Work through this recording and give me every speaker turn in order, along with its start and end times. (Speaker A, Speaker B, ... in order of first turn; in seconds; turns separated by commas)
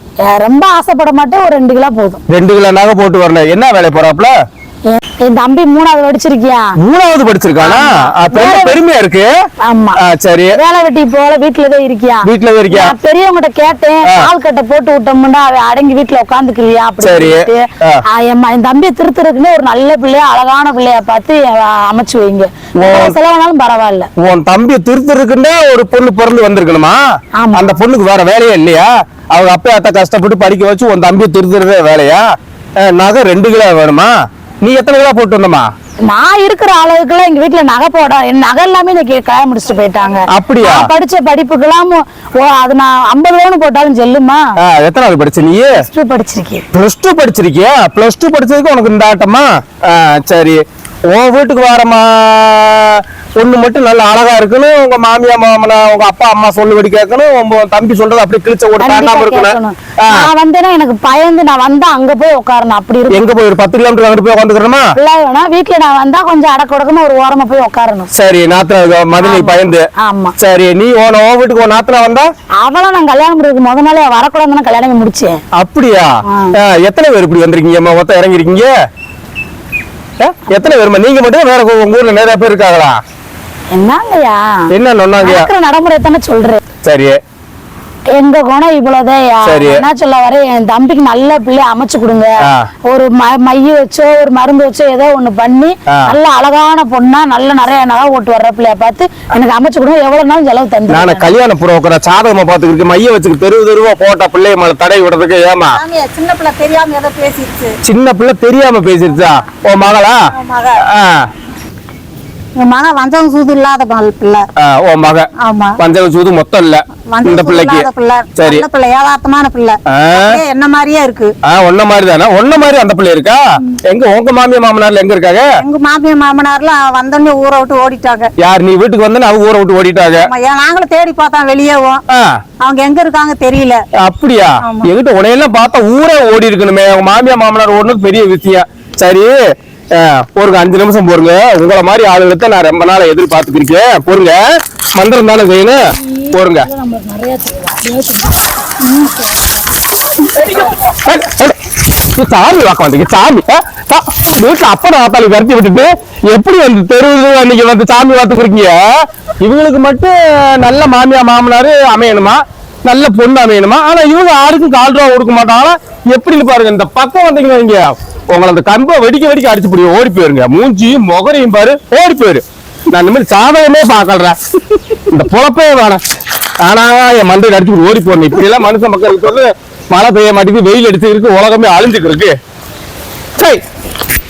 Speaker A: 0.2-2.2, Speaker B: 2.3-4.3, Speaker A: 4.9-6.7, Speaker B: 6.8-9.3, Speaker A: 7.6-8.8, Speaker A: 9.6-10.0, Speaker B: 10.0-10.6, Speaker A: 10.5-24.1, Speaker B: 12.2-12.9, Speaker B: 17.0-18.0, Speaker B: 22.8-23.1, Speaker B: 24.2-27.0, Speaker A: 27.4-27.8, Speaker B: 27.5-32.2, Speaker B: 32.8-34.1, Speaker B: 34.6-35.7, Speaker A: 36.0-44.4, Speaker B: 40.3-40.8, Speaker B: 44.6-45.8, Speaker A: 45.7-46.6, Speaker B: 46.7-60.3, Speaker A: 58.8-63.2, Speaker B: 63.1-64.9, Speaker A: 65.0-68.1, Speaker B: 68.1-69.8, Speaker A: 69.2-70.3, Speaker B: 70.4-72.3, Speaker A: 72.6-75.4, Speaker B: 75.6-78.7, Speaker A: 76.3-76.5, Speaker B: 80.2-83.0, Speaker A: 83.7-84.6, Speaker B: 84.7-85.5, Speaker A: 85.2-86.6, Speaker B: 86.8-87.2, Speaker A: 88.1-92.3, Speaker B: 89.4-89.8, Speaker A: 92.9-101.3, Speaker B: 95.9-96.1, Speaker B: 100.9-105.8, Speaker C: 105.7-107.8, Speaker B: 107.8-110.2, Speaker C: 110.3-110.8, Speaker B: 110.8-111.3, Speaker C: 112.6-114.5, Speaker B: 114.5-118.6, Speaker C: 115.4-115.8, Speaker C: 117.1-121.3, Speaker B: 119.9-120.4, Speaker B: 121.4-125.5, Speaker C: 125.6-128.3, Speaker B: 128.4-130.3, Speaker C: 130.2-132.0, Speaker B: 132.1-132.4, Speaker C: 132.6-133.8, Speaker B: 134.0-139.4, Speaker C: 134.6-134.9, Speaker B: 139.9-144.4, Speaker B: 144.9-146.7, Speaker A: 145.9-149.4, Speaker B: 150.5-176.0, Speaker B: 176.6-182.3